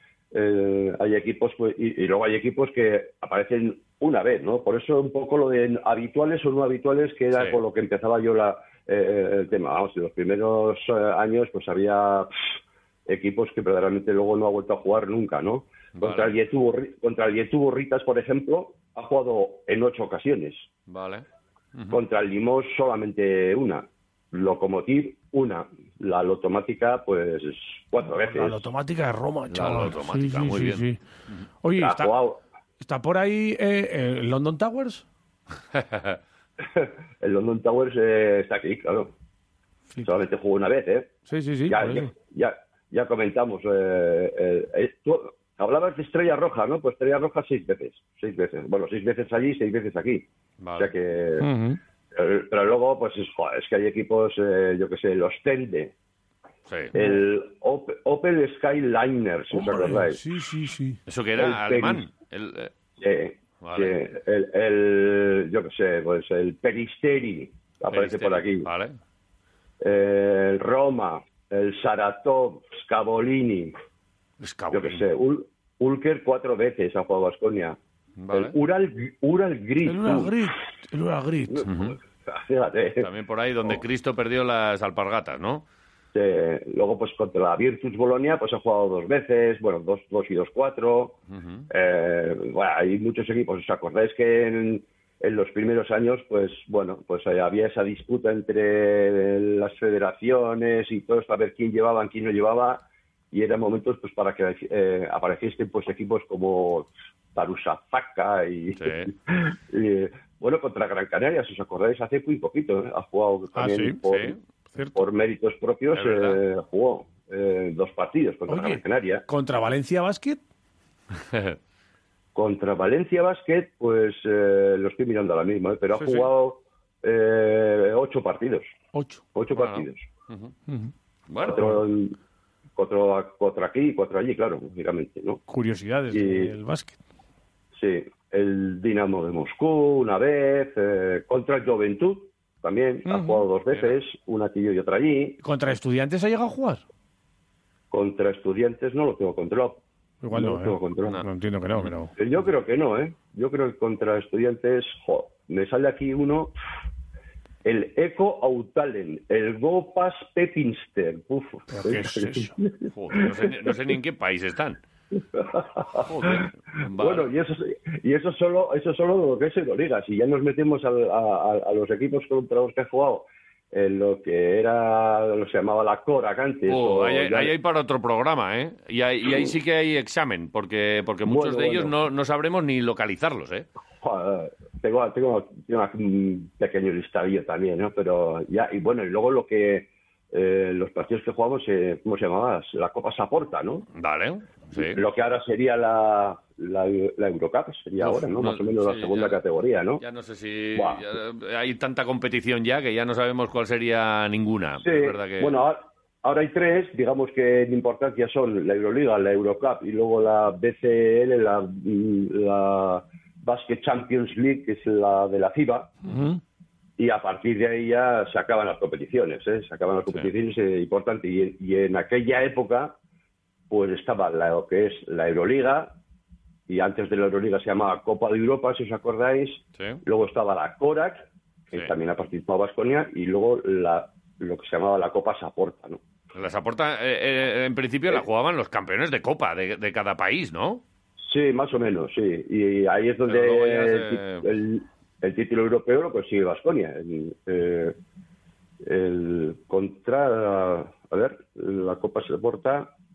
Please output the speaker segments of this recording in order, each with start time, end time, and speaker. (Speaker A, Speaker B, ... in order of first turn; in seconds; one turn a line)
Speaker A: 0.3-12.4
Speaker B: 7.3-7.6
Speaker A: 13.1-20.6
Speaker B: 15.9-16.3
Speaker B: 20.9-22.0
Speaker A: 21.9-28.6
Speaker C: 28.1-31.0
Speaker B: 29.5-31.4
Speaker C: 31.6-32.1
Speaker A: 31.8-32.4
Speaker C: 32.8-35.0
Speaker B: 35.7-36.2
Speaker A: 36.6-39.1
Speaker A: 40.0-41.1
Speaker C: 41.3-42.1
Speaker A: 41.7-50.2
Speaker B: 50.6-50.9
Speaker A: 50.8-51.5
Speaker C: 51.4-51.8
Speaker A: 52.1-55.9
Speaker B: 56.7-56.9
Speaker A: 56.9-60.2
Speaker C: 59.5-61.0
Speaker B: 61.1-62.7
Speaker A: 61.4-62.0
Speaker A: 63.0-68.7
Speaker B: 63.6-63.9
Speaker B: 67.9-69.0
Speaker A: 69.8-73.7
Speaker B: 74.4-75.0
Speaker A: 74.7-77.8
Speaker B: 78.2-78.5
Speaker A: 78.3-80.4
Speaker C: 79.8-81.6
Speaker A: 81.5-83.1
Speaker B: 81.6-82.0
Speaker B: 83.0-85.6
Speaker A: 86.1-91.2
Speaker B: 91.3-91.7
Speaker A: 91.7-114.3
Speaker B: 108.8-109.1
Speaker C: 113.5-114.0
Speaker B: 114.0-114.4
Speaker A: 114.9-119.2
Speaker B: 115.9-116.4
Speaker C: 118.5-120.4
Speaker B: 121.2-121.6
Speaker A: 122.3-128.7
Speaker C: 126.0-126.3
Speaker C: 128.9-129.2
Speaker A: 129.3-130.0
Speaker B: 129.5-130.5
Speaker B: 131.3-131.7
Speaker A: 131.4-132.1
Speaker A: 132.8-135.4
Speaker C: 135.5-137.0
Speaker A: 136.1-136.5
Speaker A: 137.8-145.4
Speaker C: 143.1-143.4
Speaker C: 145.4-146.8
Speaker A: 147.9-149.8
Speaker C: 150.2-152.1
Speaker A: 150.3-151.2
Speaker B: 151.1-151.9
Speaker A: 152.2-156.5
Speaker A: 157.6-163.5
Speaker C: 161.7-162.5
Speaker B: 162.9-164.8
Speaker A: 165.2-166.4
Speaker B: 166.0-167.3
Speaker A: 167.0-177.5
Speaker B: 176.7-183.7
Speaker A: 181.2-181.9
Speaker A: 184.0-193.9
Speaker B: 193.9-195.0
Speaker A: 194.8-200.0
Speaker B: 198.0-199.4
Speaker B: 200.0-205.5
Speaker A: 200.8-201.0
Speaker A: 204.8-215.9
Speaker C: 216.1-216.4
Speaker A: 217.0-222.9
Speaker A: 223.7-225.9
Speaker A: 226.7-236.0
Speaker B: 236.3-240.8
Speaker A: 241.2-247.9
Speaker B: 243.2-244.4
Speaker A: 248.8-252.9